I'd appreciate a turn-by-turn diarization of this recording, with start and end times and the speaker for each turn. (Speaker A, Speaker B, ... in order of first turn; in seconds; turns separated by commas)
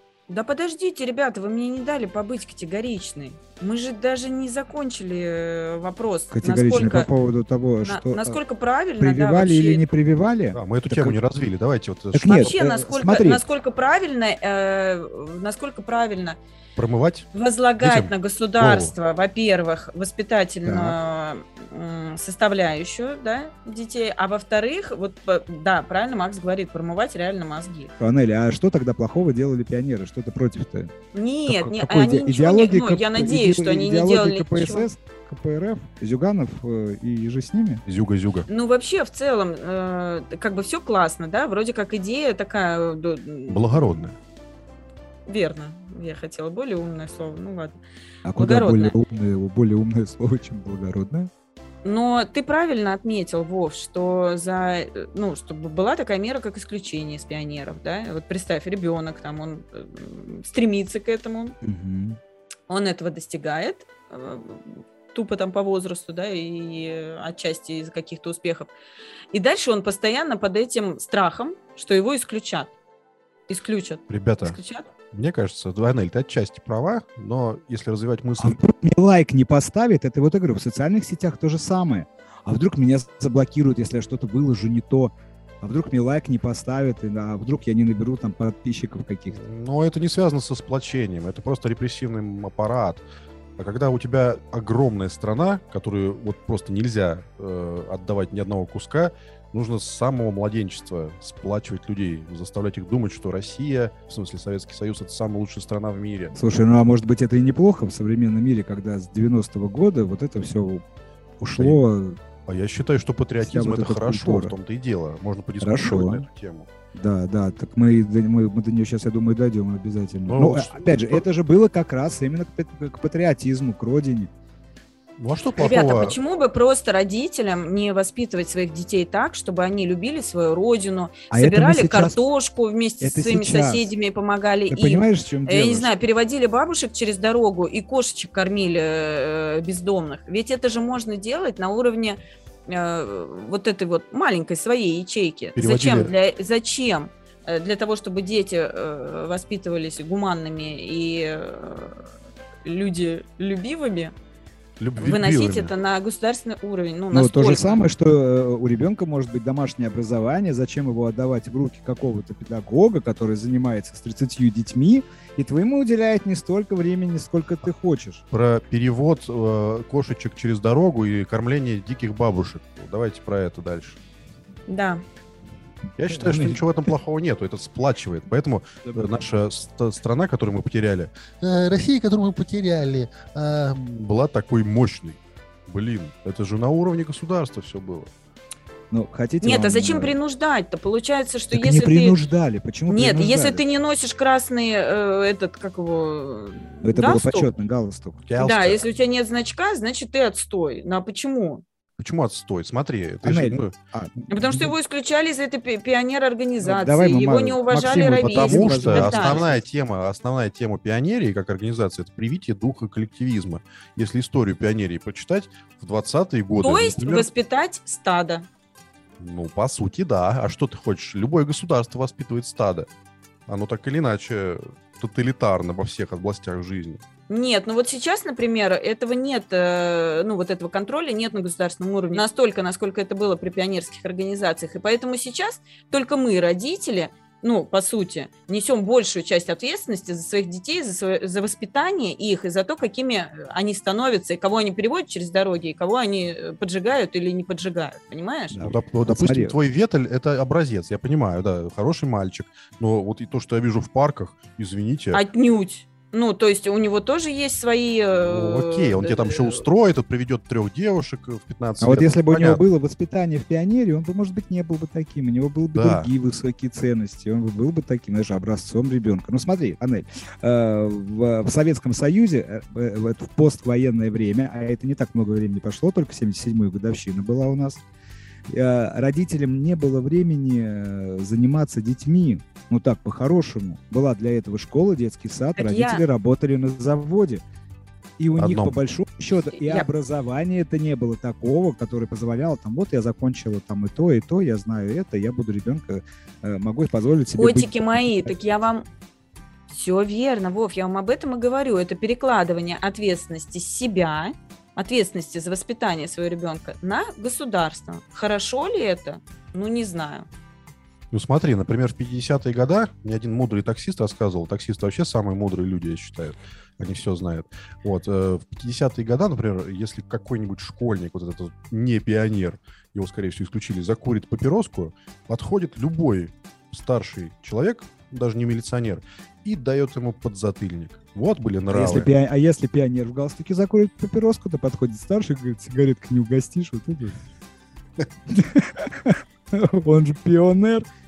Speaker A: 0.3-7.1, Speaker B: 6.3-8.4, Speaker A: 7.8-9.9, Speaker B: 9.0-11.2, Speaker C: 10.5-12.6, Speaker B: 12.1-13.4, Speaker A: 12.3-16.4, Speaker C: 16.8-17.3, Speaker A: 17.3-27.9, Speaker C: 17.8-18.9, Speaker B: 20.6-21.0, Speaker B: 28.0-30.9, Speaker A: 31.1-34.9, Speaker B: 31.4-37.8, Speaker C: 37.9-38.5, Speaker A: 38.5-43.9, Speaker C: 43.5-44.1, Speaker A: 45.3-47.8, Speaker B: 48.2-51.3, Speaker A: 48.4-48.9, Speaker A: 51.8-61.5, Speaker B: 61.6-62.2, Speaker A: 62.7-68.7, Speaker A: 69.3-72.7, Speaker A: 73.5-74.9, Speaker C: 74.1-74.6, Speaker C: 75.1-78.6, Speaker B: 78.4-89.4, Speaker C: 89.3-93.0, Speaker C: 93.6-106.3, Speaker B: 106.3-110.8, Speaker B: 111.4-112.2, Speaker C: 112.5-116.7, Speaker B: 113.4-114.5, Speaker B: 115.6-116.2, Speaker B: 116.9-124.3, Speaker C: 120.3-121.2, Speaker C: 125.2-126.2, Speaker A: 125.6-152.1, Speaker B: 131.3-132.2, Speaker B: 133.0-133.9, Speaker B: 134.7-135.9, Speaker C: 145.6-146.1, Speaker A: 152.6-154.1, Speaker C: 154.8-155.7, Speaker A: 155.0-157.8, Speaker B: 157.1-168.2, Speaker C: 168.3-174.0, Speaker A: 174.7-175.0, Speaker C: 176.0-188.1, Speaker B: 176.1-176.6, Speaker B: 188.9-190.2, Speaker A: 189.4-192.2, Speaker B: 191.5-193.6, Speaker A: 192.9-197.5, Speaker B: 196.8-198.2, Speaker C: 198.2-198.8, Speaker A: 198.4-201.6, Speaker C: 202.0-203.7, Speaker B: 203.2-204.7, Speaker A: 204.3-209.6, Speaker B: 206.6-209.6, Speaker C: 208.2-217.3, Speaker A: 216.6-218.5, Speaker C: 219.2-222.9, Speaker C: 223.5-227.0, Speaker A: 227.3-248.6, Speaker B: 248.5-249.5, Speaker C: 248.6-255.2, Speaker A: 255.1-259.6, Speaker C: 258.2-262.6, Speaker B: 261.8-277.8, Speaker C: 265.7-266.1, Speaker B: 278.5-287.4, Speaker A: 285.6-286.0, Speaker B: 288.2-298.3, Speaker C: 288.4-288.7, Speaker A: 289.3-289.9, Speaker A: 297.4-298.9, Speaker A: 299.7-310.3, Speaker C: 311.1-332.1, Speaker B: 331.7-337.2, Speaker B: 338.3-340.9